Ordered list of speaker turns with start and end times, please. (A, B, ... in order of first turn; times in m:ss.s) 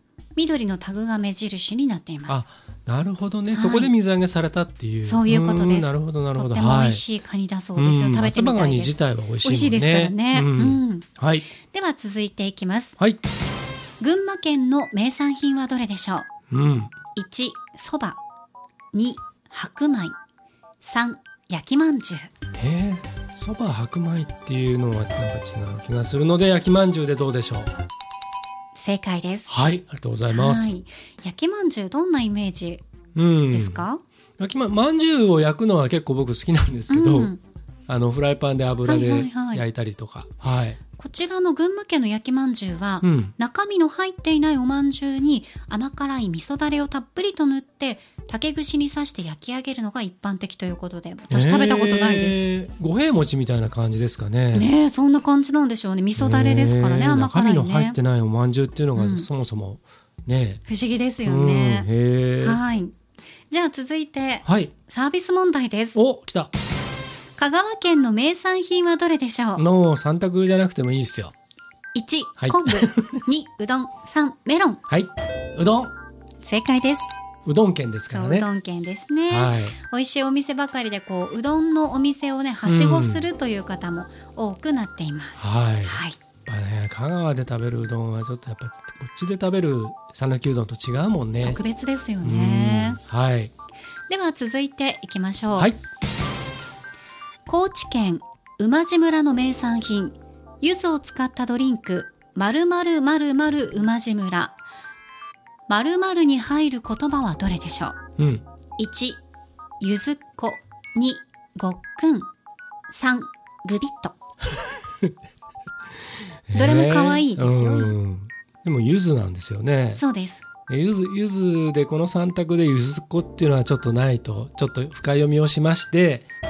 0:00.4-0:02.4 A
0:02.3-0:07.0 B
0:03.5-0:03.9 A
0:05.0-0:13.0 A
0:07.8-0:11.5 B
0:14.0-0:16.3 A
0:16.5-0:16.9 B
0:17.2-0:18.2 A
0:18.9-0:20.2 A
0:20.8-0:22.3 A
0:22.6-0:27.7 B
0:28.8-0:29.5 A
0:29.5-0:30.8 B
0:30.3-0:32.8 A
0:33.2-0:33.8 B
0:33.5-0:34.0 A
0:34.4-0:37.3 B
0:36.9-0:37.4 A
0:37.9-0:40.8 B
0:38.8-0:39.6 A
0:41.0-0:52.4 A
0:43.0-0:43.3 B
0:51.3-0:54.7 B
0:54.5-0:58.0 A
0:56.2-1:00.6 B
0:59.0-0:59.3 A
1:00.7-1:02.9 A
1:01.2-1:02.6 B
1:03.5-1:06.0 A
1:04.4-1:04.7 B
1:06.0-1:06.5 B
1:07.4-1:09.6 A
1:09.6-1:11.3 B
1:12.0-1:14.8 A
1:12.4-1:13.2 B
1:14.9-1:15.9 B
1:16.4-1:17.1 A
1:17.4-1:18.5 B
1:18.1-1:26.2 A
1:19.3-1:19.8 B
1:22.6-1:23.3 B
1:25.4-1:31.6 B
1:31.4-1:33.0 A
1:32.2-1:33.5 B
1:34.1-1:35.7 A
1:37.5-1:44.6 A
1:45.7-1:48.0 A
1:48.2-1:48.4 B
1:48.8-1:49.2 A
1:49.8-1:52.3 A
1:52.9-1:54.2 A
1:56.5-2:00.0 B
1:56.5-1:58.0 A
2:00.0-2:00.4 A
2:00.7-2:06.3 B